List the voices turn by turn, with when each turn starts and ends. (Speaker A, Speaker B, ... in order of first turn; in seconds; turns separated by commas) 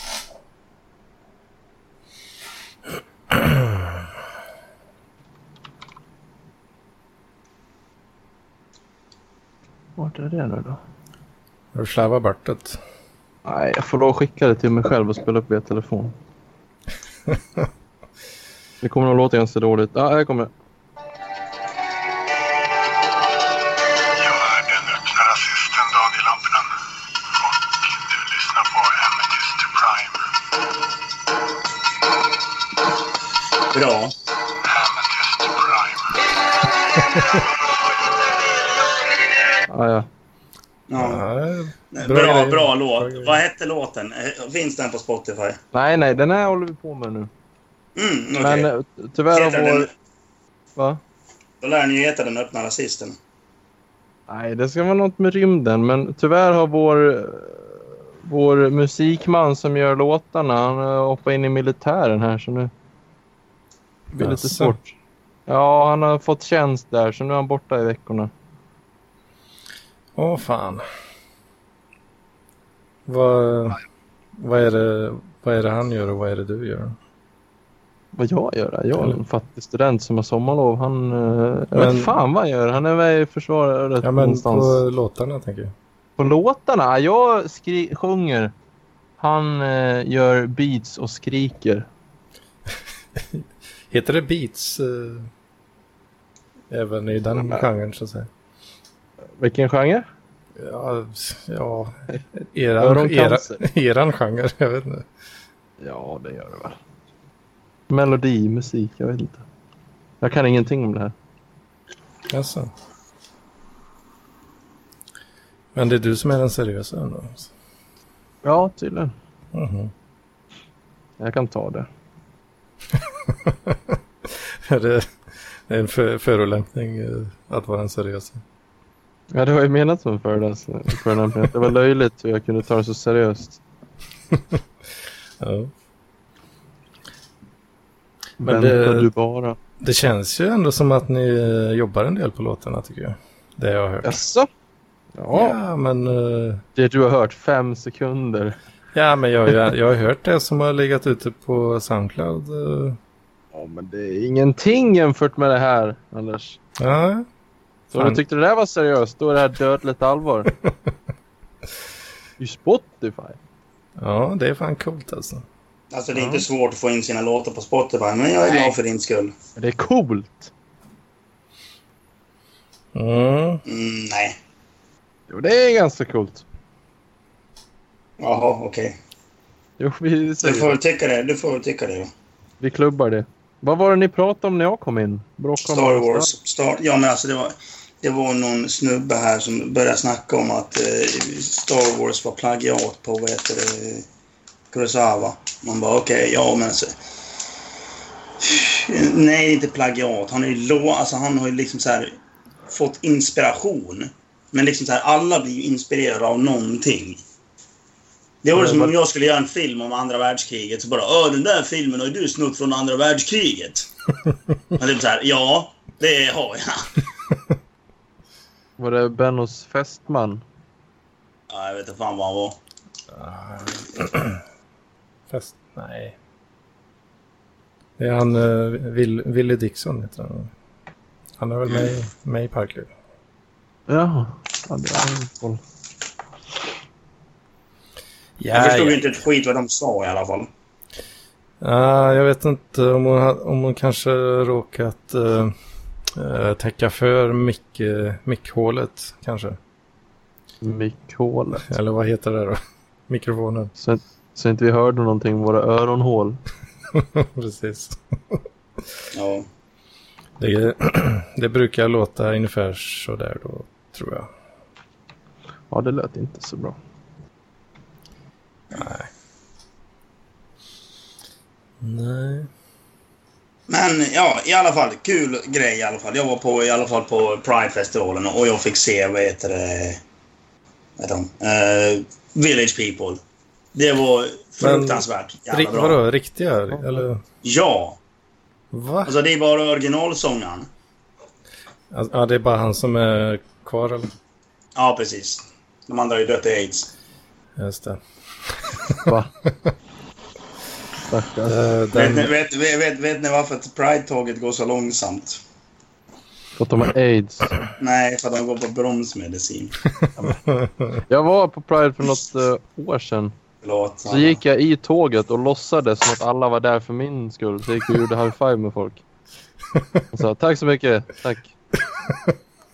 Speaker A: 3.3-3.8, Speaker B: 10.0-10.8, Speaker A: 11.7-12.8, Speaker B: 13.4-16.2, Speaker A: 17.3-17.6, Speaker B: 18.8-20.5, Speaker C: 24.2-26.7, Speaker C: 28.1-30.1, Speaker D: 33.7-34.1, Speaker C: 34.7-35.9, Speaker B: 39.7-40.1, Speaker D: 40.9-41.2, Speaker A: 40.9-43.4, Speaker D: 41.9-45.6, Speaker B: 45.7-47.3, Speaker D: 48.0-48.7, Speaker B: 48.4-49.9, Speaker D: 49.3-49.9, Speaker B: 50.8-51.0, Speaker D: 51.6-53.2, Speaker B: 54.3-62.7, Speaker B: 64.1-64.9, Speaker A: 64.2-64.8, Speaker B: 65.5-68.3, Speaker A: 70.2-70.8, Speaker A: 73.1-73.8, Speaker A: 74.4-77.0, Speaker B: 78.2-84.8, Speaker A: 81.7-82.2, Speaker A: 84.0-85.7, Speaker B: 86.2-88.5, Speaker B: 89.2-91.9, Speaker A: 93.2-95.3, Speaker A: 96.7-98.3, Speaker B: 99.4-100.1, Speaker A: 100.6-105.1, Speaker B: 102.8-103.6, Speaker B: 105.8-106.8, Speaker B: 107.9-109.4, Speaker B: 110.2-111.1, Speaker A: 112.3-112.7, Speaker A: 115.8-117.5, Speaker B: 118.4-119.1, Speaker A: 119.5-119.9, Speaker B: 121.2-121.9, Speaker A: 123.3-128.4, Speaker B: 129.3-133.6, Speaker A: 134.3-134.6, Speaker A: 135.4-135.7, Speaker B: 138.4-139.6, Speaker A: 138.4-139.1, Speaker A: 139.8-144.2, Speaker B: 144.0-144.5, Speaker B: 145.2-145.6, Speaker A: 145.3-146.6, Speaker B: 146.8-148.6, Speaker A: 148.9-153.0, Speaker B: 153.5-156.6, Speaker A: 156.8-157.3, Speaker B: 157.9-160.5, Speaker A: 157.9-158.2, Speaker B: 162.4-163.4, Speaker A: 164.0-165.5, Speaker D: 165.9-169.3, Speaker B: 166.1-166.5, Speaker B: 169.6-170.5, Speaker A: 172.9-173.6, Speaker D: 173.7-174.4, Speaker B: 175.3-176.4, Speaker D: 178.2-179.0, Speaker B: 179.8-180.8, Speaker D: 180.4-182.1, Speaker B: 182.6-186.3, Speaker D: 185.7-194.1, Speaker D: 194.7-196.9, Speaker D: 198.4-202.1, Speaker D: 202.7-207.2, Speaker D: 208.4-213.9, Speaker B: 208.5-208.9, Speaker D: 214.8-216.9, Speaker B: 218.8-220.4, Speaker D: 221.5-222.6, Speaker A: 223.1-224.4, Speaker A: 225.3-226.2, Speaker A: 228.0-230.5, Speaker A: 231.4-232.9, Speaker D: 231.7-231.9, Speaker B: 233.9-235.6, Speaker A: 238.4-239.0, Speaker D: 238.5-240.5, Speaker A: 241.6-245.5, Speaker A: 246.1-249.6, Speaker B: 250.6-251.7, Speaker A: 251.7-253.7, Speaker B: 253.8-256.4, Speaker A: 256.9-258.4, Speaker D: 259.1-259.5, Speaker A: 260.4-264.3, Speaker B: 265.7-266.8, Speaker A: 268.7-269.1, Speaker A: 271.8-272.5, Speaker D: 273.7-280.0, Speaker D: 281.0-283.2, Speaker D: 283.8-286.0, Speaker A: 284.6-287.2, Speaker D: 287.4-288.0, Speaker A: 288.7-289.1, Speaker D: 289.1-290.7, Speaker A: 291.9-294.1, Speaker D: 294.8-296.9, Speaker A: 297.6-298.0, Speaker A: 298.6-299.1, Speaker B: 299.1-299.3, Speaker B: 301.1-301.6, Speaker A: 301.5-302.3, Speaker D: 301.9-305.4, Speaker B: 306.6-307.6, Speaker D: 307.8-309.8, Speaker A: 310.2-310.7, Speaker B: 311.1-313.3, Speaker D: 313.6-314.4, Speaker B: 314.1-319.0, Speaker B: 320.1-321.5, Speaker A: 322.1-322.3